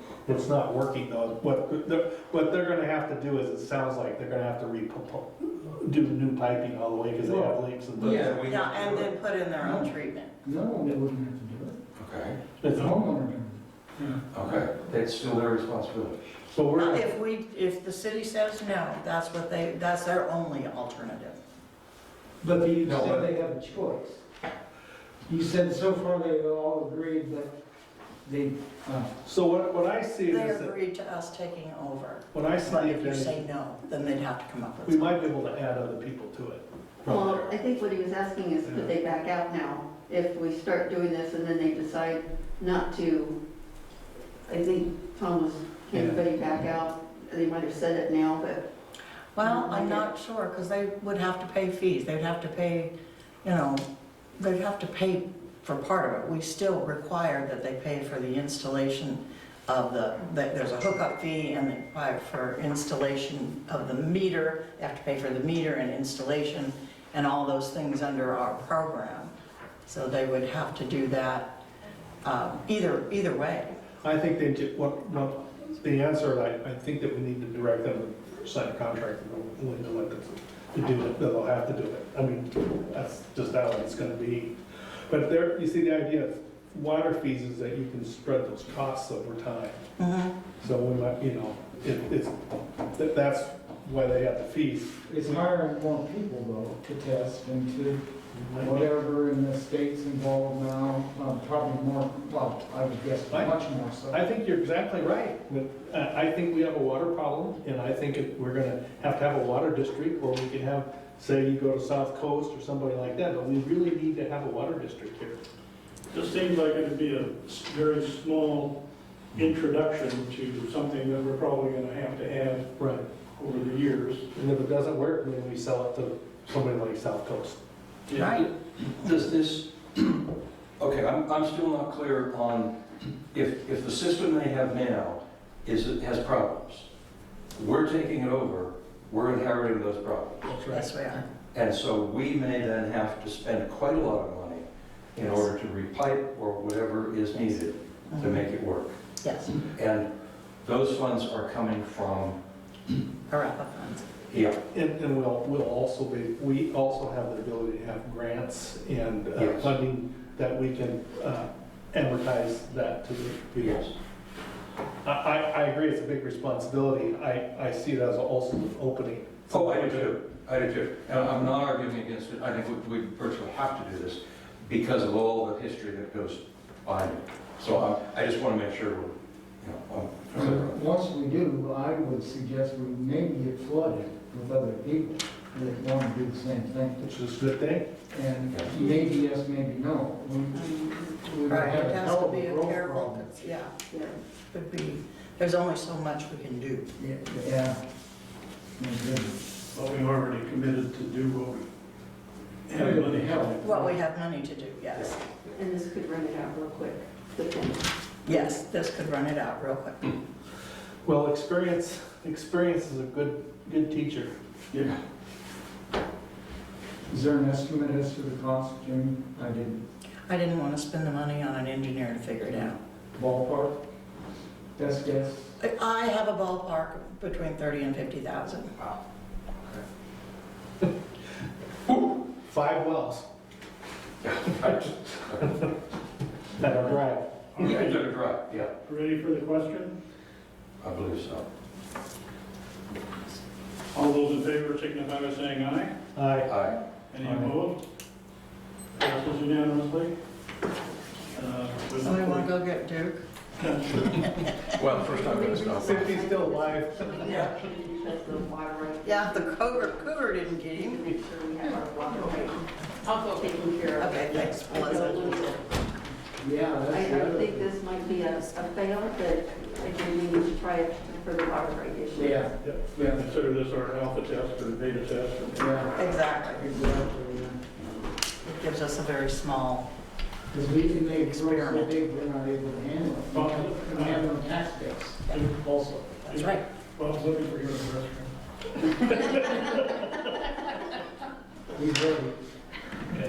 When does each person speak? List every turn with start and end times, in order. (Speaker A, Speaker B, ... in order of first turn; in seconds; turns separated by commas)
Speaker A: 0.2-8.4, Speaker B: 7.2-7.5, Speaker C: 8.0-9.1, Speaker D: 8.2-10.3, Speaker B: 9.6-9.9, Speaker B: 10.4-11.8, Speaker C: 12.0-12.4, Speaker A: 12.6-12.9, Speaker B: 12.7-14.1, Speaker C: 14.3-16.2, Speaker A: 16.5-17.1, Speaker D: 16.8-21.4, Speaker B: 22.4-24.2, Speaker C: 22.8-23.3, Speaker B: 25.3-27.5, Speaker B: 28.2-29.1, Speaker A: 29.2-30.7, Speaker D: 30.3-35.1, Speaker A: 32.3-33.4, Speaker A: 34.8-37.4, Speaker E: 37.0-43.4, Speaker C: 37.2-37.5, Speaker A: 38.6-38.9, Speaker E: 44.5-48.6, Speaker A: 45.9-46.2, Speaker D: 49.3-52.9, Speaker E: 49.4-50.1, Speaker D: 53.4-53.8, Speaker D: 54.4-69.3, Speaker D: 69.9-71.5, Speaker D: 72.2-73.7, Speaker A: 74.0-84.5, Speaker A: 85.1-89.8, Speaker D: 90.0-90.3, Speaker A: 90.6-92.3, Speaker A: 92.9-95.4, Speaker B: 95.1-98.0, Speaker A: 98.3-98.8, Speaker B: 98.6-104.2, Speaker A: 104.1-115.4, Speaker F: 116.1-118.7, Speaker F: 119.3-122.7, Speaker A: 122.8-123.0, Speaker F: 123.3-124.2, Speaker A: 124.3-127.6, Speaker F: 128.1-128.4, Speaker D: 128.1-128.5, Speaker C: 128.4-130.3, Speaker C: 130.8-132.7, Speaker C: 133.3-136.9, Speaker C: 137.5-140.6, Speaker A: 140.4-140.9, Speaker D: 140.7-141.2, Speaker C: 141.5-148.9, Speaker D: 148.1-148.4, Speaker D: 149.2-149.6, Speaker C: 149.7-150.1, Speaker C: 150.6-152.4, Speaker D: 153.3-154.1, Speaker C: 154.3-154.6, Speaker A: 154.7-163.8, Speaker C: 159.4-159.7, Speaker C: 163.6-163.9, Speaker A: 165.0-170.1, Speaker C: 169.5-180.8, Speaker B: 180.3-187.1, Speaker A: 187.0-187.9, Speaker B: 188.1-190.7, Speaker E: 190.5-191.2, Speaker B: 191.2-193.5, Speaker D: 191.5-193.7, Speaker D: 194.5-196.9, Speaker B: 197.0-197.8, Speaker B: 198.8-199.4, Speaker F: 199.7-201.7, Speaker F: 202.7-203.8, Speaker B: 202.7-203.9, Speaker D: 203.6-205.2, Speaker E: 205.4-208.5, Speaker D: 208.2-210.1, Speaker A: 211.0-214.3, Speaker B: 217.1-219.8, Speaker D: 220.3-222.8, Speaker B: 223.2-223.8, Speaker B: 224.8-225.5, Speaker D: 225.6-228.8, Speaker C: 231.9-232.2, Speaker A: 232.4-233.2, Speaker C: 234.2-235.5, Speaker A: 234.6-235.7, Speaker A: 236.6-237.3, Speaker F: 237.6-238.1, Speaker C: 237.6-238.7, Speaker F: 238.7-239.9, Speaker C: 240.8-241.5, Speaker F: 243.9-245.9, Speaker A: 246.1-246.5, Speaker C: 246.4-246.8, Speaker F: 247.1-247.8, Speaker B: 247.2-247.6, Speaker F: 248.9-250.1, Speaker F: 251.3-252.5, Speaker D: 252.0-253.2, Speaker F: 253.6-254.4, Speaker D: 254.3-254.6, Speaker C: 254.7-256.2, Speaker E: 254.8-265.6, Speaker A: 255.8-257.4, Speaker C: 257.2-257.6, Speaker D: 259.0-261.1, Speaker D: 263.9-265.6, Speaker B: 266.4-267.7, Speaker E: 266.9-272.5, Speaker B: 272.1-273.2, Speaker F: 273.0-275.9, Speaker B: 275.5-275.9, Speaker D: 275.9-276.6, Speaker B: 276.5-277.7, Speaker D: 278.4-279.9, Speaker B: 280.5-286.4, Speaker D: 281.1-282.0, Speaker F: 283.3-284.3, Speaker F: 286.3-288.3, Speaker D: 286.3-286.6, Speaker F: 288.9-289.6, Speaker B: 291.7-292.4